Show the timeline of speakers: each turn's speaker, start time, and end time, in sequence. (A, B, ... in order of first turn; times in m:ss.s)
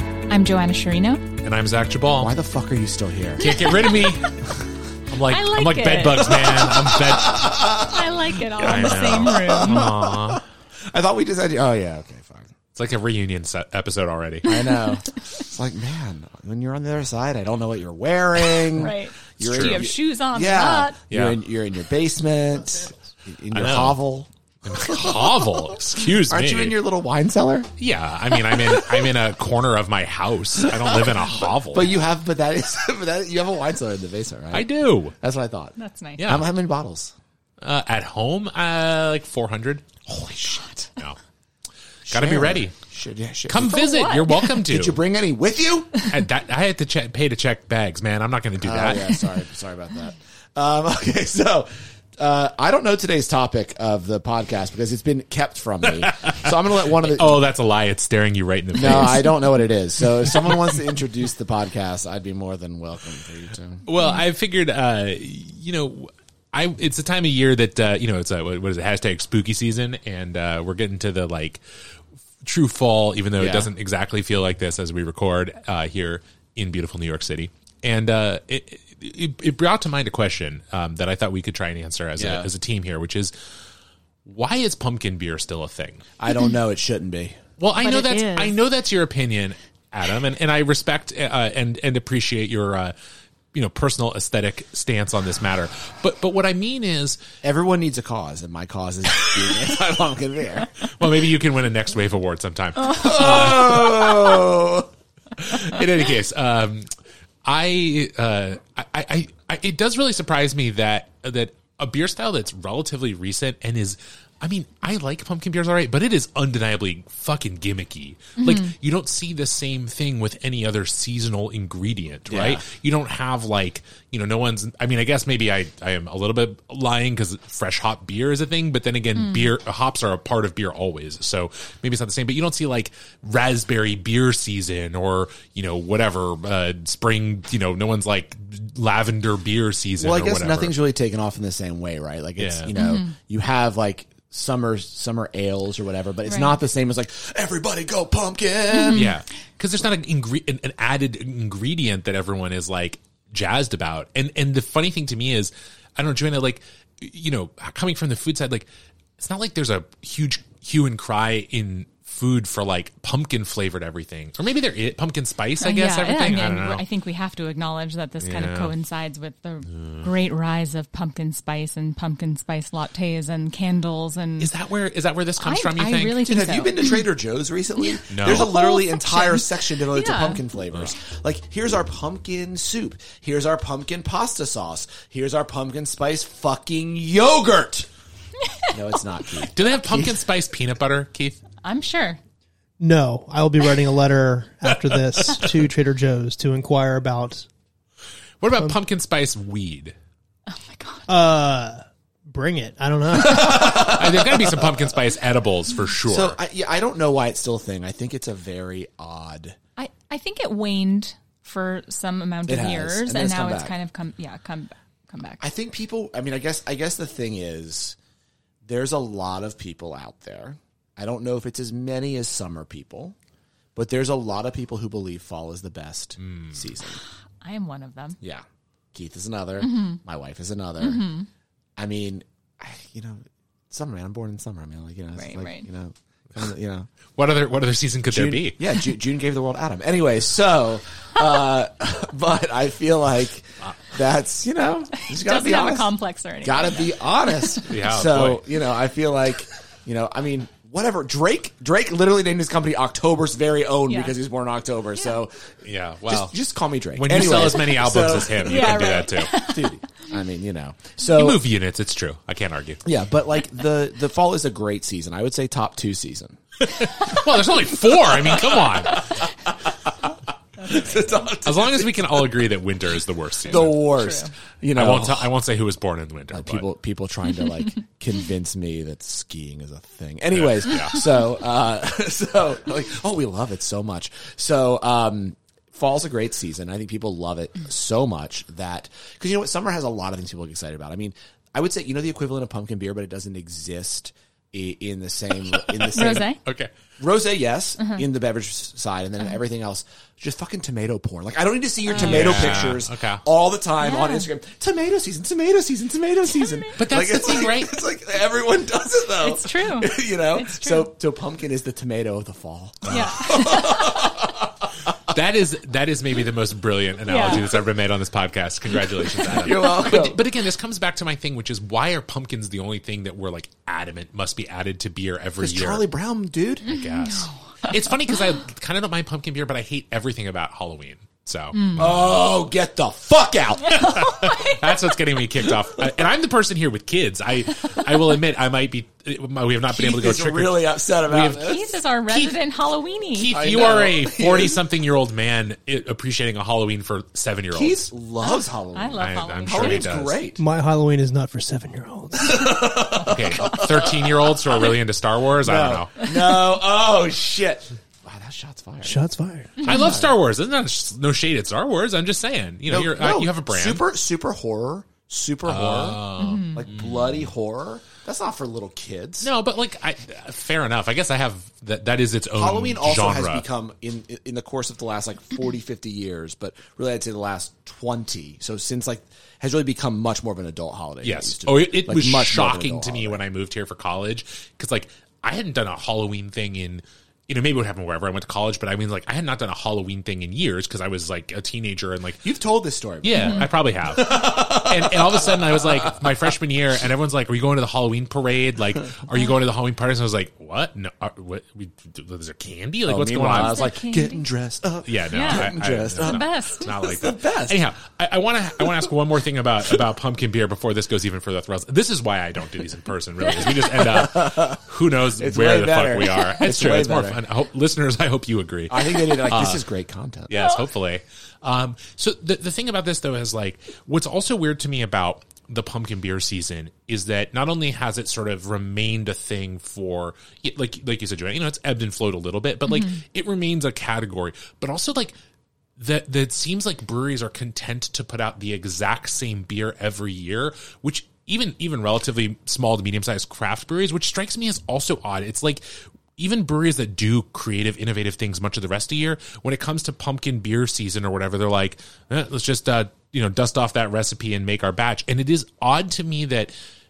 0:00.3-0:01.2 A
0:01.4-0:02.4 B
0:02.2-0:03.4 C
0:03.4-0:07.8 B
0:03.4-0:04.4 A
0:05.2-0:07.0 A
0:06.5-0:08.0 C
0:07.8-0:09.9 A
0:08.6-0:12.5 C
0:08.6-0:10.4 B
0:12.8-0:14.7 B
0:14.4-0:25.4 C
0:18.7-0:21.0 A
0:19.4-0:19.9 B
0:21.1-0:21.4 B
0:23.5-0:24.0 B
0:24.6-0:26.8 B
0:26.0-0:27.7 C
0:27.8-0:32.0 B
0:28.5-0:29.1 C
0:30.6-0:34.7 C
0:34.5-0:35.2 B
0:35.2-0:37.2 C
0:35.8-0:36.2 A
0:36.2-0:36.5 B
0:37.6-0:40.1 B
0:40.1-0:40.9 C
0:42.1-0:42.8 B
0:42.1-0:43.8 C
0:43.5-0:45.0 B
0:43.6-0:44.5 A
0:44.4-0:46.1 C
0:46.1-0:49.2 B
0:48.6-0:57.4 C
0:55.9-0:59.4 B
0:58.8-1:03.8 C
1:00.1-1:00.6 B
1:03.8-1:11.6 B
1:04.0-1:04.2 A
1:12.4-1:23.3 B
1:13.4-1:13.7 C
1:22.2-1:22.5 C
1:24.2-1:26.1 B
1:26.2-1:27.4 C
1:27.6-1:32.9 B
1:27.8-1:28.6 A
1:33.5-1:37.2 B
1:37.4-1:40.9 C
1:39.2-1:39.6 B
1:40.8-1:44.4 B
1:42.8-1:44.9 C
1:45.4-1:46.9 B
1:47.4-2:20.8 B
1:58.4-1:58.7 A
2:02.3-2:02.6 C
2:09.2-2:09.5 A
2:20.0-2:29.1 C
2:22.4-2:22.8 B
2:22.7-2:23.2 A
2:26.3-2:26.6 A
2:28.7-2:29.2 A
2:28.9-2:38.7 B
2:39.2-2:46.8 B
2:45.6-2:54.5 A
2:48.2-2:48.7 B
2:49.8-2:50.1 B
2:54.4-2:56.2 B
2:55.4-2:57.0 A
2:56.2-3:07.9 C
2:57.8-3:00.4 A
2:58.1-2:58.5 B
3:08.5-3:08.7 A
3:08.7-3:10.2 C
3:09.4-3:11.4 B
3:11.6-3:12.2 A
3:12.8-3:17.5 D
3:14.9-3:15.5 B
3:18.4-3:19.9 B
3:20.5-3:21.1 A
3:21.1-3:24.0 D
3:23.3-3:26.4 B
3:23.3-3:24.8 C
3:26.1-3:29.6 C
3:29.8-3:35.4 A
3:32.5-3:33.8 C
3:35.4-3:38.0 C
3:38.6-3:43.2 C
3:43.8-3:47.0 C
3:46.2-3:46.6 B
3:47.4-3:48.2 A
3:48.2-3:51.1 C
3:49.6-3:50.0 A
3:50.8-3:51.3 A
3:51.8-3:56.9 C
3:55.2-3:55.7 A
3:57.2-3:58.6 B
3:58.1-4:05.9 C
4:04.9-4:07.7 A
4:06.4-4:21.4 C
4:07.6-4:08.5 B
4:13.9-4:14.1 A
4:15.6-4:16.4 B
4:17.0-4:19.6 B
4:18.4-4:19.7 A
4:21.1-4:22.8 B
4:22.8-4:32.5 C
4:26.6-4:29.2 B
4:30.6-4:31.3 A
4:31.4-4:34.1 B
4:33.5-4:35.3 C
4:33.8-4:34.3 A
4:34.7-4:36.7 B
4:36.3-4:56.3 C
4:40.3-4:41.0 B
4:55.5-4:56.7 B
4:55.9-4:56.4 A
4:57.0-5:15.1 C
4:57.8-4:58.0 A
5:01.9-5:03.2 B
5:01.9-5:02.3 A
5:03.8-5:04.3 A
5:06.4-5:06.7 A
5:06.8-5:07.8 B
5:09.2-5:10.9 A
5:12.8-5:13.5 B
5:12.9-5:14.1 A
5:15.1-5:25.9 B
5:17.1-5:17.5 A
5:19.2-5:20.3 C
5:25.4-5:26.8 C
5:26.6-5:32.0 B
5:26.7-5:27.7 A
5:31.5-5:31.9 A
5:31.8-5:34.1 C
5:33.6-5:34.8 A
5:33.7-5:42.4 B
5:35.4-5:35.8 C
5:39.7-5:41.8 C
5:41.2-5:43.7 A
5:43.2-5:47.8 B
5:43.3-5:44.6 C
5:47.5-5:50.4 C
5:48.2-5:50.0 A
5:49.0-5:50.2 B
5:50.4-5:53.6 D
5:52.2-5:54.8 C
5:53.1-5:56.0 B
5:55.4-5:59.0 C
5:58.8-5:59.7 D
5:59.6-5:59.9 A
5:59.6-6:00.2 C
5:59.6-6:03.8 B
6:02.7-6:06.0 C
6:05.5-6:07.2 B
6:06.2-6:06.7 A
6:06.6-6:09.3 C
6:09.2-6:13.4 B
6:12.4-6:23.2 C
6:21.0-6:32.3 B
6:32.2-6:36.3 C
6:33.0-6:43.7 B
6:33.2-6:33.5 A
6:42.9-6:47.6 C
6:43.3-6:44.3 A
6:44.9-6:59.7 B
6:45.1-6:46.7 A
6:53.3-6:54.6 C
6:55.2-6:57.2 C
6:58.7-7:00.5 C
7:00.3-7:15.2 B
7:00.3-7:00.6 A
7:12.7-7:13.0 A
7:15.8-7:36.5 B